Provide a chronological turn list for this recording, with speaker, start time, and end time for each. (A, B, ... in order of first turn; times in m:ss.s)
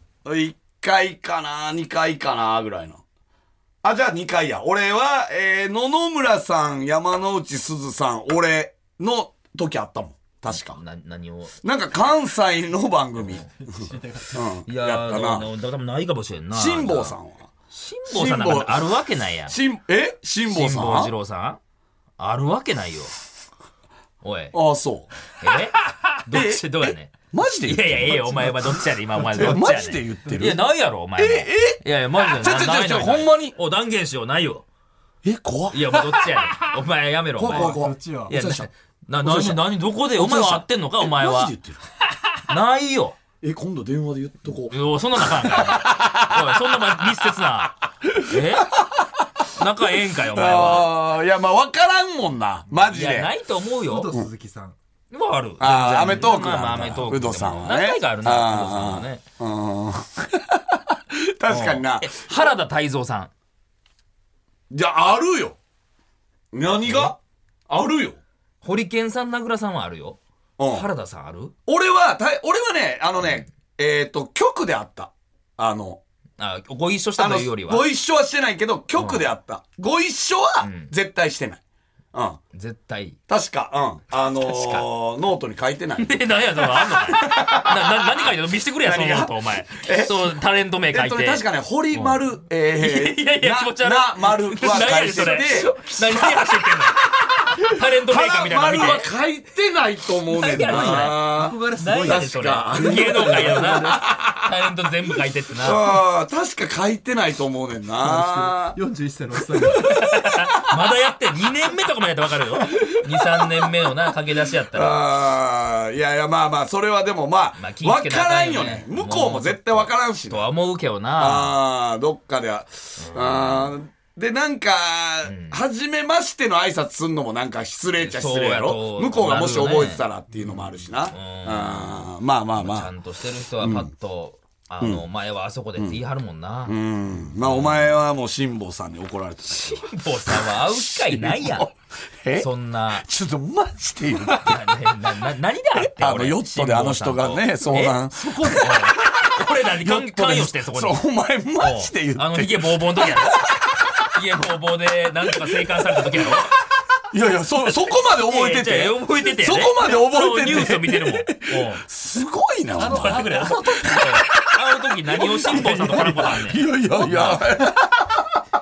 0:00.2-0:03.0 A
0:03.8-0:10.8 A
0:10.5-0:11.6 B
0:11.6-0:13.4 A
0:13.2-0:13.5 B
0:13.5-0:14.5 C
0:14.3-0:15.5 A
0:14.6-0:17.2 B
0:16.5-0:17.5 A
0:17.7-0:19.6 B
0:18.1-0:18.9 A
0:19.5-0:21.1 A
0:20.5-0:21.6 B
0:22.2-0:23.1 B
0:24.2-0:24.6 B
0:24.5-0:25.1 A
0:25.4-0:34.6 B
0:26.3-0:28.7 A
0:29.3-0:30.6 A
0:31.2-0:33.5 A
0:35.2-0:36.5 A
0:35.7-0:41.5 B
0:37.4-0:38.7 A
0:37.4-0:38.3 C
0:39.2-0:41.8 A
0:42.4-0:43.2 B
0:43.4-0:47.3 A
0:44.7-0:48.8 B
0:48.0-0:49.2 A
0:49.5-0:50.9 B
0:50.1-0:53.3 A
0:52.9-0:54.1 B
0:53.8-0:54.8 C
0:55.1-0:59.2 B
0:55.6-1:02.2 A
1:01.5-1:03.3 B
1:04.7-1:05.6 A
1:06.5-1:08.2 A
1:06.8-1:07.1 B
1:08.6-1:11.5 B
1:10.6-1:10.9 A
1:11.7-1:16.0 A
1:16.4-1:17.8 B
1:17.2-1:21.6 A
1:19.0-1:19.2 B
1:20.6-1:20.9 B
1:22.1-1:22.4 A
1:22.5-1:23.2 B
1:23.3-1:30.3 A
1:24.4-1:24.9 B
1:26.0-1:32.2 B
1:30.9-1:44.5 A
1:32.8-1:39.1 B
1:40.3-1:45.9 B
1:40.4-1:44.0 C
1:45.6-1:48.8 A
1:48.0-1:50.1 C
1:49.6-1:50.5 A
1:49.7-1:55.0 B
1:54.7-2:00.5 A
1:57.6-2:01.6 B
2:01.2-2:12.9 A
2:03.0-2:03.7 B
2:05.2-2:05.6 B
2:08.0-2:16.8 B
2:13.6-2:13.9 A
2:16.6-2:24.7 A
2:17.4-2:18.0 B
2:19.5-2:21.7 B
2:22.4-2:23.0 B
2:24.4-2:31.0 B
2:25.8-2:34.1 A
2:31.6-2:36.5 B
2:35.2-2:36.4 A
2:37.1-2:48.4 A
2:38.0-2:41.8 B
2:42.8-2:43.9 C
2:42.8-2:47.6 B